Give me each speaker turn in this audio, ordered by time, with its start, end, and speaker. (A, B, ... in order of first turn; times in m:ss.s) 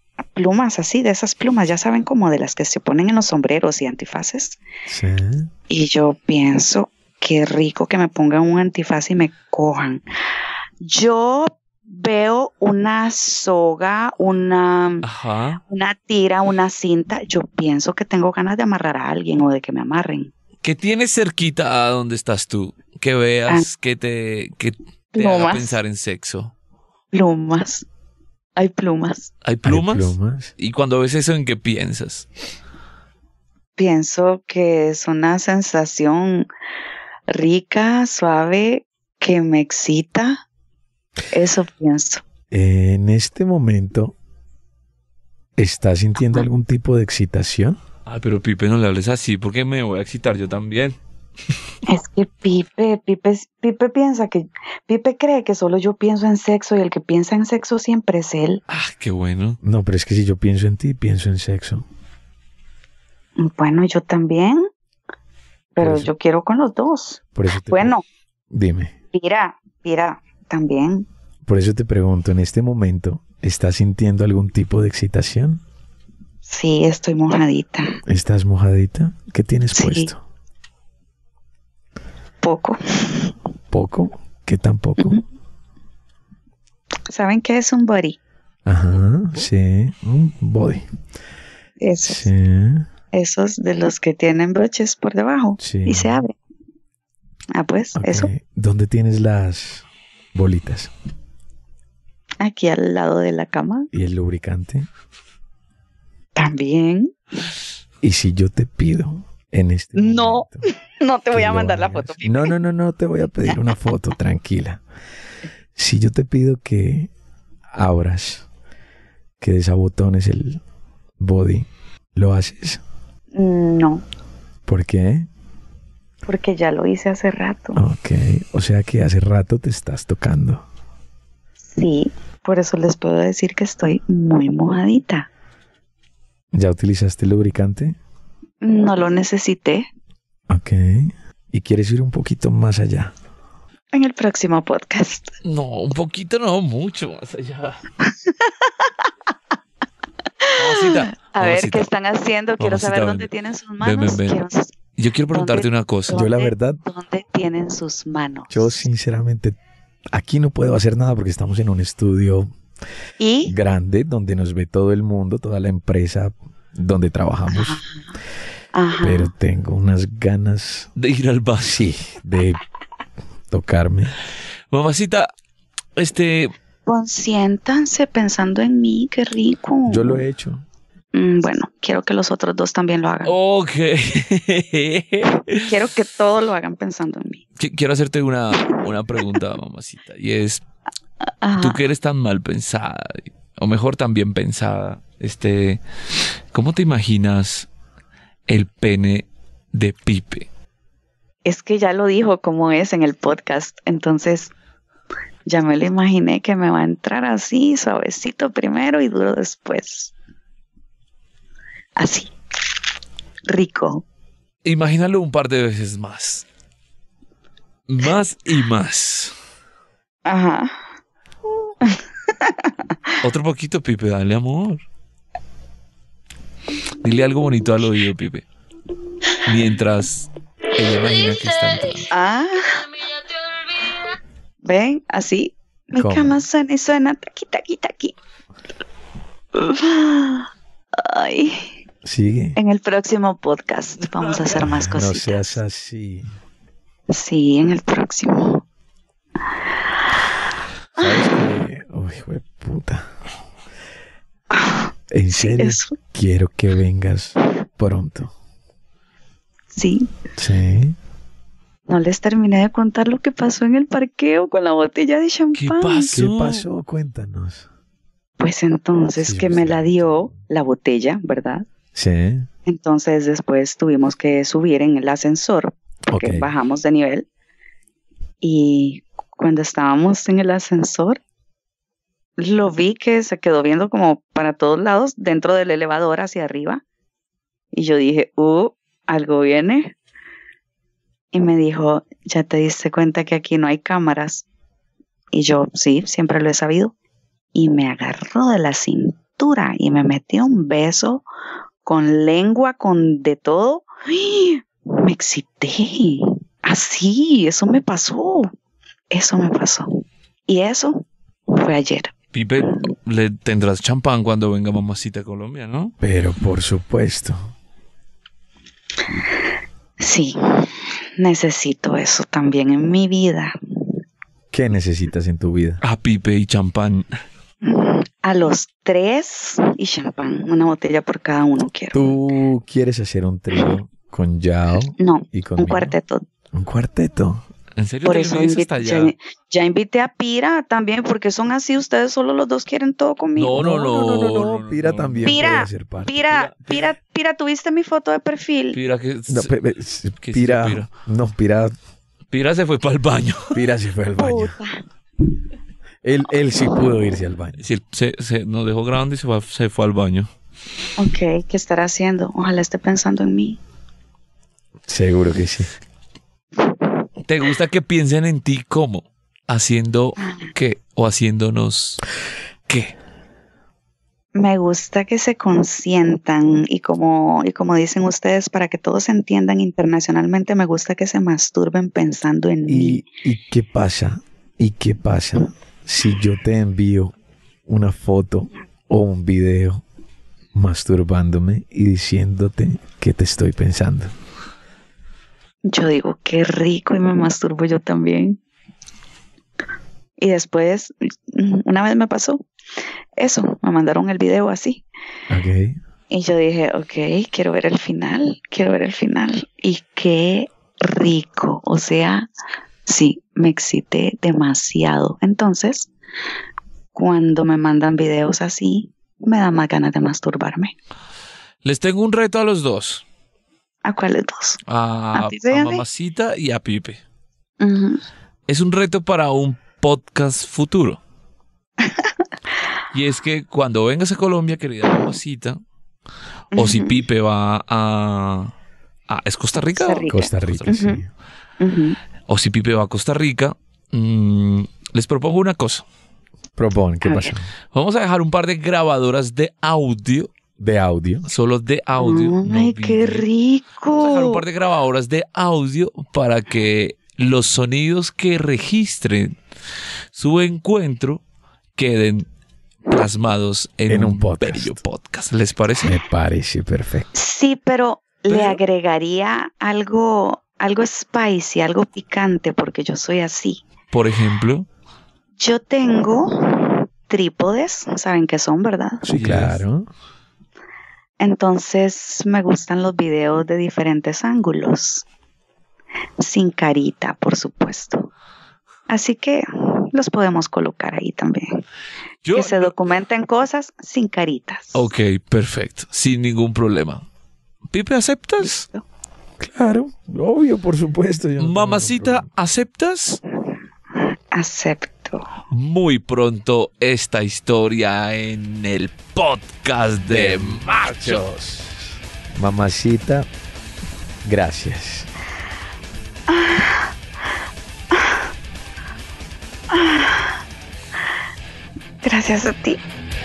0:00.3-0:04.6 A
0:04.8-0:05.5 B
0:05.7-0:10.0 A
0:10.8-0:15.0 A
0:15.0-0:15.6 C
0:15.6-0:20.3 A
0:20.6-0:26.5 C
0:25.1-0:25.8 A
0:27.1-0:27.8 A
0:28.6-0:29.3 A
0:29.4-0:32.3 C
0:29.6-0:30.5 B
0:33.8-0:36.5 A
0:37.3-0:40.4 A
0:41.3-0:42.2 A
0:42.5-0:44.1 B
0:45.6-0:47.8 B
0:48.0-0:51.0 C
0:51.9-0:58.6 A
0:58.7-0:59.6 C
0:59.6-1:01.8 B
1:03.4-1:04.6 A
1:05.7-1:08.0 A
1:05.8-1:06.1 B
1:07.3-1:07.9 B
1:08.5-1:08.9 B
1:09.1-1:11.1 A
1:11.4-1:15.6 B
1:16.4-1:18.0 A
1:18.0-1:20.2 B
1:19.7-1:20.1 A
1:22.4-1:23.3 A
1:23.7-1:25.2 B
1:27.1-1:28.2 A
1:28.6-1:30.8 B
1:31.8-1:32.3 A
1:32.0-1:32.8 B
1:33.1-1:36.3 A
1:35.6-1:36.2 B
1:37.5-1:38.3 A
1:38.0-1:40.9 B
1:42.4-1:43.9 A
1:43.9-1:44.9 B
1:46.4-1:47.1 A
1:48.0-1:50.7 B
1:49.9-1:52.6 A
1:51.3-1:54.8 B
1:55.7-1:57.1 B
1:57.7-1:58.4 B
1:59.4-2:00.6 B
2:01.2-2:02.8 B
2:03.3-2:04.0 A
2:04.6-2:05.3 B
2:06.2-2:07.8 A
2:07.7-2:10.6 B
2:11.7-2:15.3 A
2:16.5-2:18.0 B
2:18.6-2:19.9 A
2:20.5-2:23.1 B
2:23.9-2:25.3 A
2:25.4-2:27.8 C
2:28.3-2:28.9 A
2:30.4-2:34.7 A
2:30.6-2:31.8 C
2:32.6-2:34.4 C
2:34.9-2:36.2 C
2:35.3-2:38.8 A
2:36.1-2:36.8 B
2:38.5-2:39.6 B
2:40.1-2:42.5 B
2:43.2-2:43.5 A
2:43.4-2:47.8 B
2:47.5-2:48.1 A
2:48.7-2:49.3 A
2:49.0-2:50.9 B
2:51.0-2:51.9 C
2:51.6-2:52.6 B
2:53.5-2:54.1 B
2:54.7-2:55.3 C
2:56.0-2:56.5 C
2:56.8-3:00.2 A
2:59.9-3:00.6 B
3:01.1-3:03.3 A
3:03.2-3:05.7 C
3:05.6-3:07.4 A
3:07.6-3:10.6 C
3:11.4-3:11.8 A
3:11.6-3:15.8 C
3:16.5-3:17.7 C
3:18.5-3:20.5 C
3:21.4-3:24.5 A
3:25.5-3:30.1 A
3:32.0-3:32.3 A
3:33.5-3:34.0 A
3:34.6-3:36.4 C
3:37.9-3:39.3 C
3:40.2-3:40.7 A
3:41.8-3:42.7 A
3:43.2-3:44.8 C
3:47.0-3:48.4 C
3:49.4-3:52.1 C
3:52.1-3:52.9 A
3:54.6-3:58.1 A
3:56.0-3:56.4 B
3:59.5-4:01.7 A
4:02.0-4:02.6 B
4:02.6-4:05.4 A
4:04.1-4:04.6 C
4:04.6-4:06.3 B
4:07.1-4:08.6 A
4:11.0-4:11.3 A
4:11.0-4:13.1 B
4:15.1-4:18.3 B
4:15.3-4:16.0 A
4:19.7-4:20.1 A
4:20.4-4:20.9 B
4:21.9-4:26.2 A
4:25.5-4:26.6 C
4:26.1-4:27.7 B
4:28.4-4:31.6 A
4:29.2-4:30.4 B
4:31.9-4:32.5 B
4:32.6-4:37.3 A
4:36.1-4:36.5 B
4:38.4-4:41.2 A
4:42.4-4:46.8 A
4:47.7-4:49.9 A
4:51.3-4:54.4 A
4:55.3-4:56.9 A
4:57.5-5:01.2 A
5:01.8-5:08.5 A
5:09.1-5:12.1 A
5:12.3-5:15.9 C
5:16.0-5:17.5 B
5:20.0-5:23.5 A
5:24.5-5:25.8 B
5:25.8-5:27.1 C
5:27.6-5:32.2 A
5:31.9-5:36.0 B
5:35.0-5:36.2 A
5:36.5-5:37.4 B
5:37.8-5:39.1 C
5:38.0-5:43.8 A
5:43.4-5:45.6 C
5:43.6-5:46.1 B
5:45.2-5:48.8 A
5:46.3-5:46.9 C
5:48.7-5:49.5 C
5:49.3-5:51.7 B
5:50.2-5:50.9 C
5:52.3-5:53.6 C
5:53.5-5:54.5 B
5:54.2-5:54.8 A
5:56.0-5:57.6 B
5:57.6-6:00.3 C
6:01.0-6:03.6 A
6:04.9-6:05.7 B
6:07.2-6:12.0 C
6:10.2-6:10.5 A
6:12.7-6:12.9 C
6:14.3-6:23.0 A
6:22.7-6:27.1 B
6:27.7-6:29.8 B
6:30.5-6:34.1 B
6:35.6-6:38.4 A
6:40.2-6:42.4 A
6:43.2-6:44.8 A
6:45.3-6:45.8 B
6:46.1-6:52.3 A
6:52.8-6:55.9 A
6:56.9-7:00.7 A
7:01.6-7:03.0 C
7:03.8-7:04.6 A
7:04.7-7:07.0 C
7:05.1-7:05.8 A
7:07.6-7:08.0 A
7:08.5-7:11.0 C
7:12.9-7:15.6 C
7:16.5-7:17.0 A
7:16.5-7:18.5 C
7:19.1-7:20.8 C
7:19.7-7:21.0 A
7:20.1-7:21.1 B
7:21.6-7:22.0 A
7:22.3-7:25.8 C
7:26.6-7:27.5 B
7:27.0-7:27.3 A
7:27.7-7:30.3 C
7:30.6-7:31.3 B
7:31.3-7:33.2 C
7:32.0-7:34.4 A
7:33.9-7:39.3 C
7:40.1-7:41.2 C
7:41.8-7:42.3 C
7:42.9-7:46.0 C
7:43.9-7:44.8 B
7:45.8-7:47.1 B
7:47.1-7:53.6 A
7:48.3-7:48.6 C
7:53.9-7:54.7 C
7:55.4-7:59.0 A
7:59.0-7:59.9 B
7:59.0-7:59.6 C
8:01.2-8:05.0 A
8:06.2-8:08.1 A
8:08.9-8:11.6 A
8:12.2-8:12.8 C
8:12.3-8:14.9 A
8:14.7-8:17.0 C
8:17.7-8:18.6 C
8:18.4-8:18.8 A
8:19.4-8:22.2 B
8:21.4-8:23.2 C
8:24.3-8:25.3 A
8:25.5-8:31.2 C
8:30.1-8:33.3 B
8:34.2-8:35.1 B
8:36.3-8:36.9 A
8:37.9-8:38.2 A
8:39.7-8:40.3 A
8:42.0-8:42.8 A